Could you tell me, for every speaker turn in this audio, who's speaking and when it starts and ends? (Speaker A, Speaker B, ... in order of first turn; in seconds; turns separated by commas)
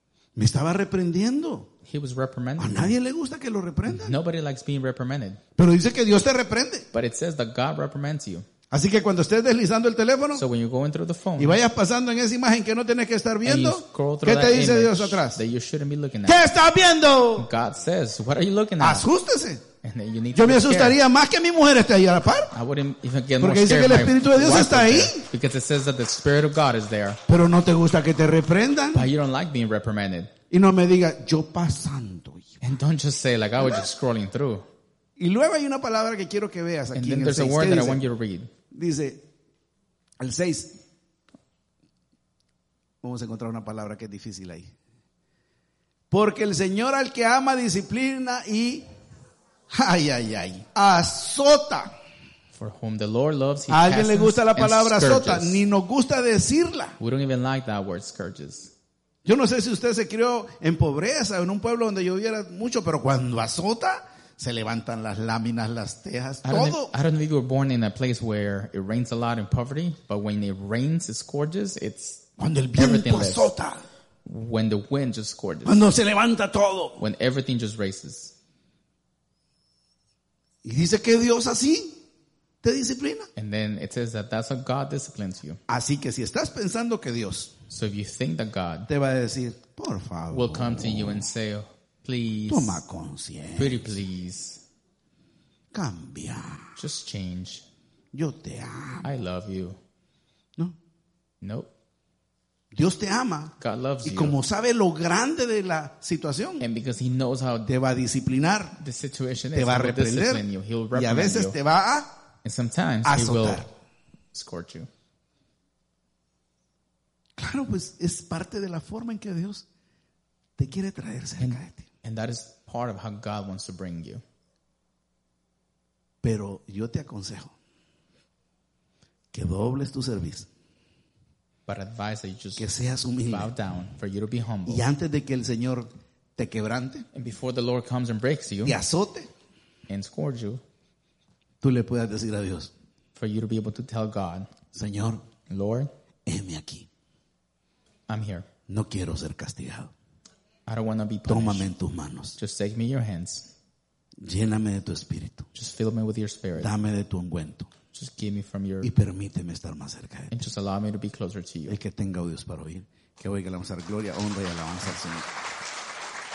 Speaker A: 0.4-1.7, Speaker B: 1.8-2.9, Speaker A: 2.6-4.2, Speaker B: 3.9-5.4, Speaker A: 5.6-6.9, Speaker B: 6.9-8.4, Speaker A: 8.7-10.4, Speaker B: 10.3-11.6, Speaker A: 11.4-15.4, Speaker B: 13.4-16.5, Speaker A: 16.2-17.5, Speaker B: 17.4-19.1, Speaker A: 18.8-19.6, Speaker B: 19.8-21.0, Speaker A: 20.3-22.5, Speaker B: 22.5-27.2, Speaker A: 23.4-25.3, Speaker A: 27.3-29.1, Speaker B: 28.9-30.3, Speaker A: 30.5-32.6, Speaker B: 32.6-34.6, Speaker A: 35.2-38.0, Speaker B: 36.9-38.5, Speaker A: 38.7-39.3, Speaker A: 40.2-40.8, Speaker A: 43.0-44.7, Speaker A: 46.1-48.9, Speaker A: 49.7-51.9, Speaker B: 52.5-55.6, Speaker A: 53.7-57.0, Speaker B: 57.0-58.7, Speaker A: 59.2-66.9, Speaker B: 66.4-73.5, Speaker A: 72.4-73.8, Speaker B: 74.2-75.9, Speaker A: 75.6-77.0, Speaker B: 77.0-78.3, Speaker A: 80.6-82.0, Speaker A: 82.6-83.3, Speaker B: 83.4-85.6, Speaker A: 85.7-87.5, Speaker B: 87.7-88.9, Speaker A: 88.9-91.2, Speaker B: 90.3-92.8, Speaker A: 92.5-94.0, Speaker B: 93.6-94.6, Speaker A: 95.7-96.8, Speaker B: 96.8-97.6, Speaker A: 98.1-99.1, Speaker B: 99.0-99.8, Speaker B: 101.4-101.7, Speaker A: 102.7-106.7, Speaker B: 103.6-104.4, Speaker B: 106.6-107.7, Speaker A: 107.7-108.8, Speaker B: 108.8-111.6, Speaker A: 109.5-112.2, Speaker B: 112.4-113.7, Speaker A: 113.0-113.7, Speaker B: 114.3-114.9, Speaker A: 117.4-119.6, Speaker A: 120.6-121.9, Speaker B: 121.4-124.2, Speaker A: 126.2-127.5, Speaker A: 129.3-130.5, Speaker B: 131.7-134.9, Speaker A: 132.6-133.5, Speaker A: 134.7-137.1, Speaker B: 137.1-138.8, Speaker A: 138.6-139.3, Speaker B: 139.9-140.6, Speaker A: 141.6-142.7, Speaker B: 143.2-144.5, Speaker A: 144.7-145.2, Speaker B: 145.5-145.9, Speaker A: 146.3-146.9, Speaker B: 148.1-148.5, Speaker A: 148.7-149.9, Speaker B: 150.7-151.7, Speaker A: 151.3-152.4, Speaker B: 152.4-153.5, Speaker A: 154.2-155.5, Speaker B: 155.6-156.7, Speaker A: 156.6-157.7, Speaker B: 157.9-158.9, Speaker A: 158.8-160.3, Speaker B: 160.3-161.8, Speaker A: 161.7-165.3